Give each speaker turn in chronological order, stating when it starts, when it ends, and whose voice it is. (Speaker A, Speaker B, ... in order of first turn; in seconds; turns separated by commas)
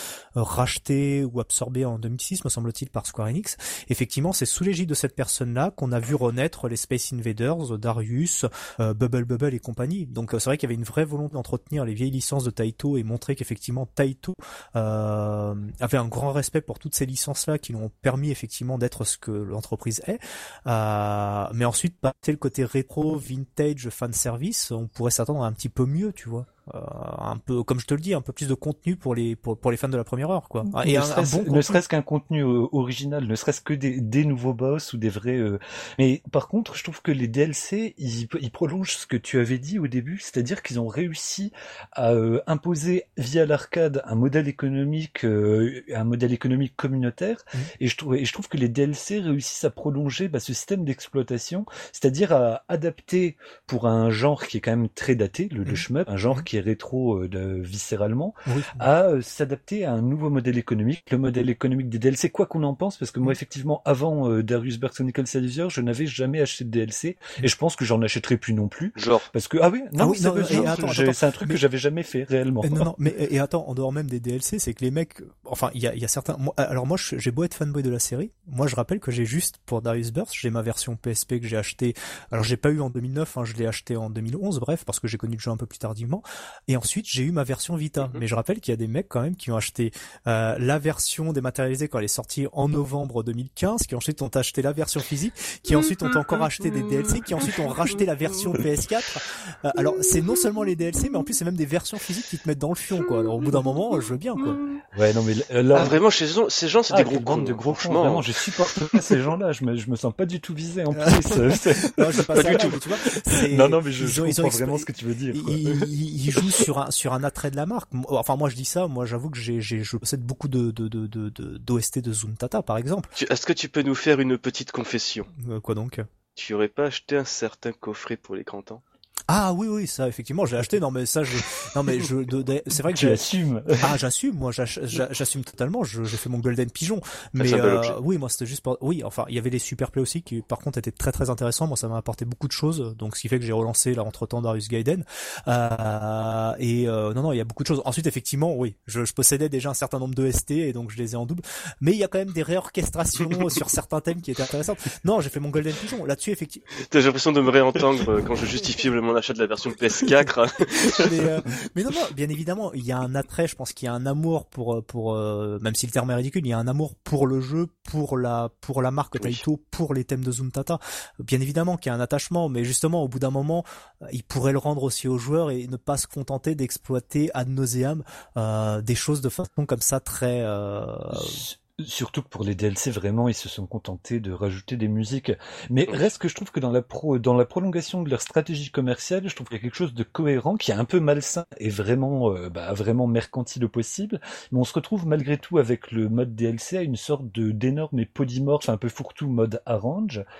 Speaker A: 0.3-31.8, Speaker B: 30.7-72.9, Speaker A: 55.6-56.5, Speaker A: 58.5-58.8, Speaker C: 69.0-69.3, Speaker A: 70.0-71.6, Speaker A: 72.6-104.6, Speaker B: 104.9-106.0, Speaker C: 105.7-108.2, Speaker B: 106.9-116.7, Speaker A: 110.9-123.1, Speaker C: 123.2-125.3, Speaker A: 125.4-126.0, Speaker C: 126.3-128.8, Speaker A: 129.3-133.2, Speaker B: 132.8-133.9, Speaker A: 133.8-156.7, Speaker C: 137.4-138.0, Speaker C: 156.8-161.1, Speaker A: 160.8-181.4, Speaker C: 169.2-169.4, Speaker B: 181.1-200.2